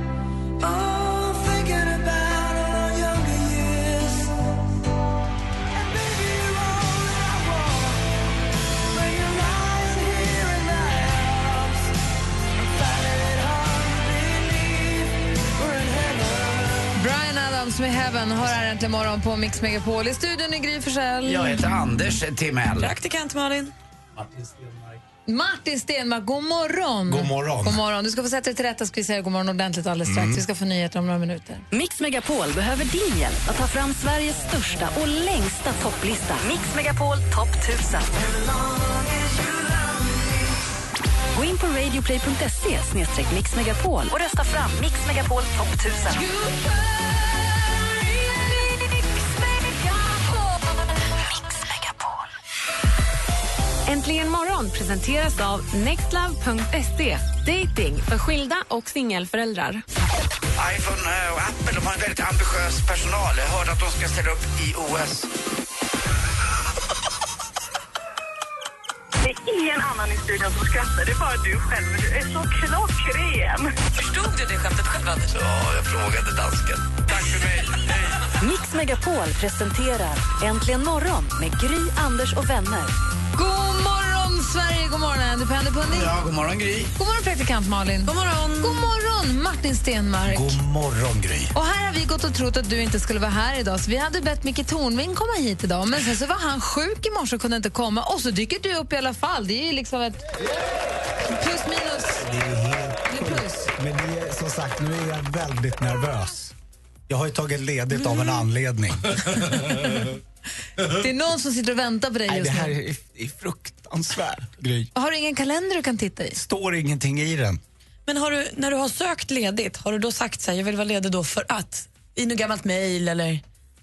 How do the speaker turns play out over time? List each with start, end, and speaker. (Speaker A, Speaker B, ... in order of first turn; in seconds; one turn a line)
Speaker A: 1.1-3.3
Speaker A: 9.4-11.0
Speaker A: 13.1-14.2
Speaker A: 15.7-16.4
Speaker B: 16.9-21.6
Speaker A: 21.2-22.9
Speaker C: 22.7-23.7
Speaker D: 24.2-25.0
Speaker B: 25.3-31.7
Speaker D: 27.1-27.8
Speaker D: 30.1-30.4
Speaker E: 31.7-38.1
Speaker E: 41.3-46.2
Speaker F: 49.6-50.2
Speaker E: 51.2-52.2
Speaker F: 53.9-59.8
Speaker A: 60.6-65.3
Speaker G: 69.2-73.7
Speaker C: 74.0-75.3
Speaker A: 75.3-78.3
Speaker E: 78.3-82.9
Speaker B: 83.3-86.1
Speaker A: 85.9-86.9
Speaker B: 87.0-90.6
Speaker C: 88.1-88.9
Speaker D: 90.3-91.5
Speaker B: 91.5-100.3
Speaker B: 101.3-102.3
Speaker D: 102.2-106.5
Speaker B: 103.1-103.7
Speaker D: 107.1-109.6
Speaker B: 110.8-112.8
Speaker D: 112.3-114.9
Speaker B: 115.0-116.4
Speaker D: 116.3-117.6
Speaker C: 118.1-123.4